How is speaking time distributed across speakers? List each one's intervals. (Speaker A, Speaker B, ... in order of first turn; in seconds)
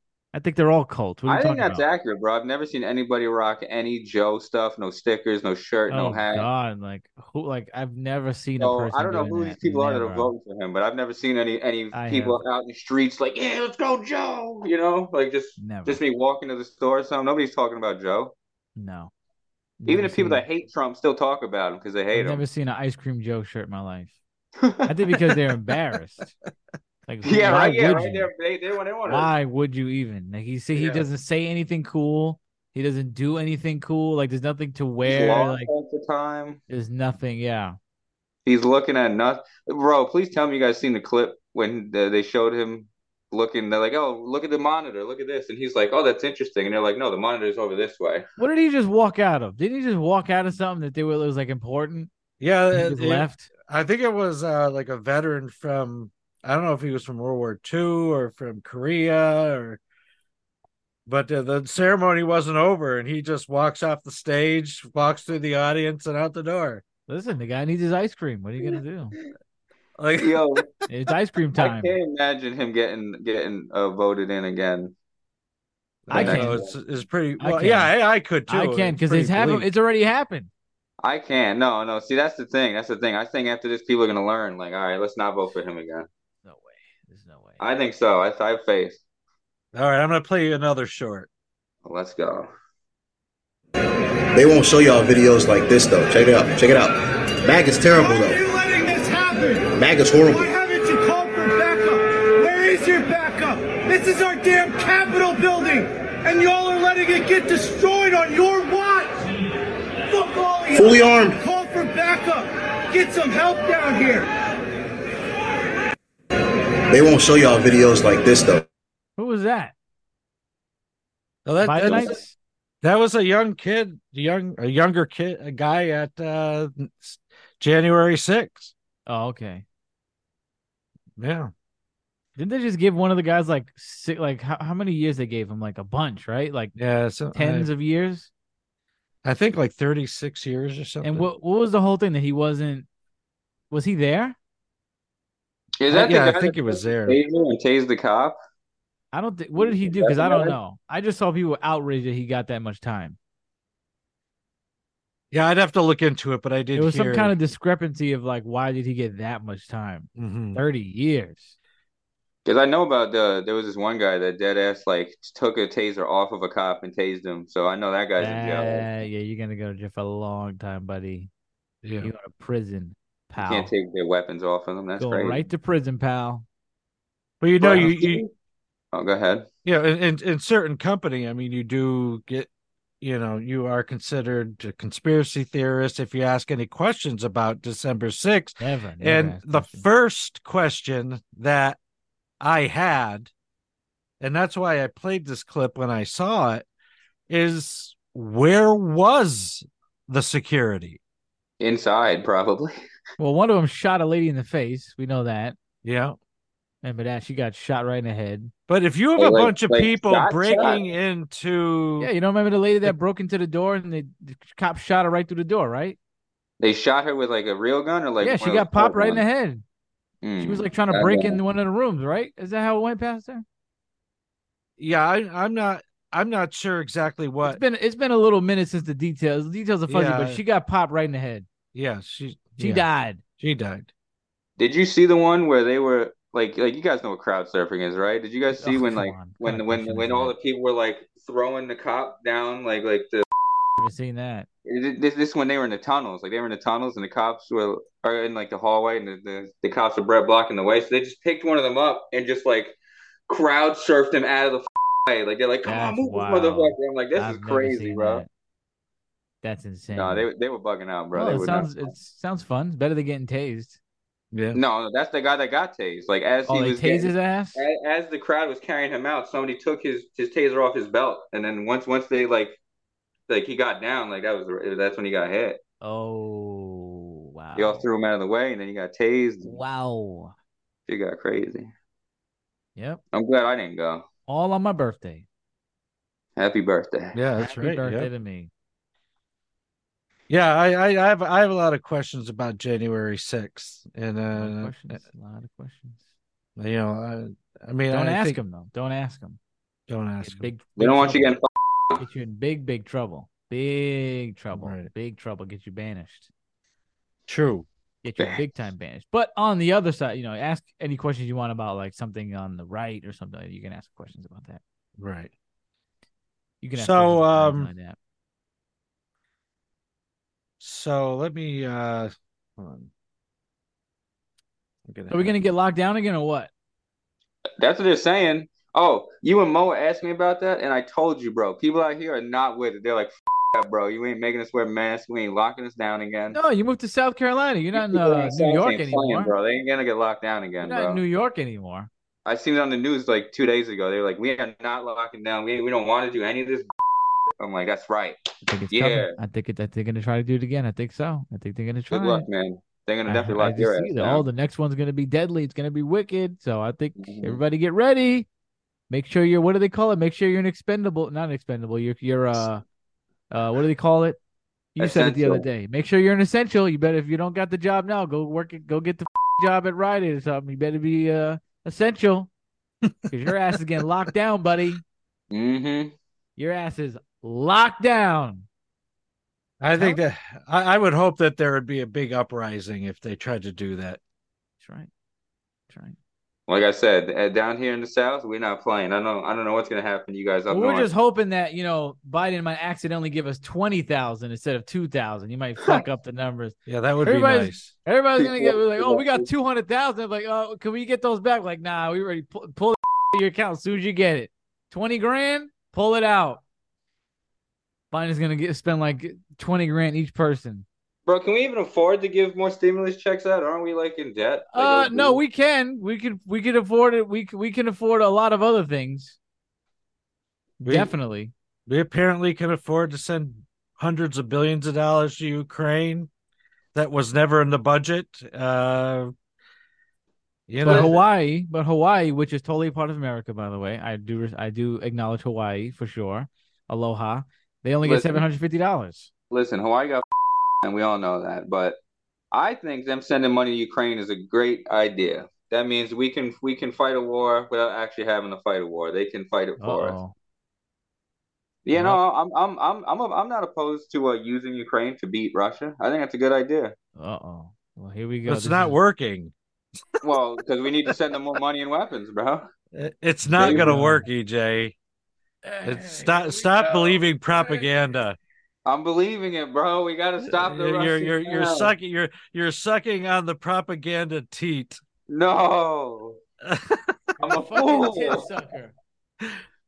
Speaker A: 0.3-1.8, 5.9-10.3, 11.9-12.4, 15.6-16.0, 18.8-19.1, 19.8-20.4, 22.1-24.2, 24.9-26.3, 27.1-28.3, 29.1-35.7, 36.7-37.8, 48.4-52.1, 52.7-53.5, 67.1-69.1, 70.9-71.9, 76.1-76.6, 77.4-77.9, 78.5-80.5, 86.4-87.6, 119.2-119.7, 121.6-122.3, 129.1-129.6, 132.3-136.8, 137.3-138.3, 141.0-142.9, 143.7-144.3, 149.1-153.2, 156.7-161.5, 168.2-171.3, 172.0-173.7, 175.0-176.4, 188.6-189.8, 203.2-205.6, 206.8-208.5, 212.0-216.0, 218.2-219.6, 220.4-223.4, 227.4-231.4, 232.6-233.2, 238.6-240.3, 243.8-244.5, 255.6-258.3, 259.4-260.3, 261.1-263.8, 266.5-267.6, 275.8-277.8, 279.4-280.3, 282.8-283.0, 284.3-285.2, 287.4-288.5, 294.3-296.0, 297.9-299.4, 300.2-301.3, 302.0-306.3, 308.0-314.6, 316.6-317.9, 325.1-326.5, 336.3-339.3, 340.6-341.9, 348.5-352.3, 353.1-358.3, 358.9-362.6, 363.3-364.2, 364.7-372.3, 373.1-374.8, 376.4-378.4, 384.6-384.9, 385.7-386.0, 390.5-406.4, 407.9-410.6, 414.5-419.1, 420.6-421.3, 430.6-439.1, 449.6-450.1, 451.7-452.0, 457.0-458.8, 463.4-464.0, 465.4-466.4, 477.2-478.7
Speaker B: 1.3-6.5, 8.6-18.3, 19.9-22.4, 24.6-24.9, 27.2-29.3, 35.0-36.6, 38.5-48.2, 70.2-70.6, 71.6-74.9, 76.1-76.8, 81.0-86.1, 87.6-89.0, 91.8-92.5, 145.8-148.3, 149.6-150.6, 162.4-168.9, 173.4-175.4, 177.6-178.3, 178.9-179.5, 201.6-202.7, 209.2-210.8, 216.6-219.2, 220.2-221.4, 234.6-243.2, 244.7-252.8, 253.3-258.2, 259.9-261.9, 264.5-272.6, 273.3-275.6, 277.6-279.6, 280.9-281.7, 283.1-284.0, 286.4-287.2, 300.8-302.0, 327.6-336.4, 337.7-341.0, 342.2-346.7, 347.4-348.2, 348.7-349.1, 351.9-354.2, 357.0-357.4, 364.8-365.4, 375.3-375.9, 386.5-390.9, 398.2-399.3, 411.1-415.2, 430.6-431.0, 437.8-438.2, 439.3-440.1, 440.6-441.8, 442.3-450.0, 451.6-456.7, 460.0-462.4, 463.4-463.7, 468.6-471.7, 475.1-476.2, 477.2-478.2
Speaker C: 52.4-59.8, 61.0-66.8, 70.0-70.8, 76.1-79.7, 89.7-91.3, 121.4-122.2, 122.8-128.7, 131.2-131.5, 136.8-137.7, 139.2-141.3, 145.9-147.2, 155.3-157.3, 160.2-160.6, 171.8-172.1, 177.4-178.2, 179.6-182.5, 183.0-191.8, 192.4-193.3, 194.2-196.6, 197.3-201.0, 205.8-206.2, 208.7-212.1, 224.8-227.6, 229.9-230.4, 231.7-232.8, 233.4-233.9, 264.3-264.6, 287.1-288.1, 290.3-295.0, 296.6-298.4, 299.9-300.5, 304.5-304.9, 307.3-307.6, 315.0-315.3, 316.8-317.7, 320.6-322.9, 324.9-325.3, 372.8-373.1, 379.6-384.0, 396.7-397.7, 420.6-420.9, 421.7-426.1, 426.7-429.1, 430.5-431.0, 458.3-459.3, 462.7-464.7, 465.6-468.2, 470.2-474.8, 476.4-477.2
Speaker D: 94.3-98.4, 99.7-100.5, 110.7-111.4, 116.9-118.7
Speaker E: 97.8-109.2, 110.1-114.3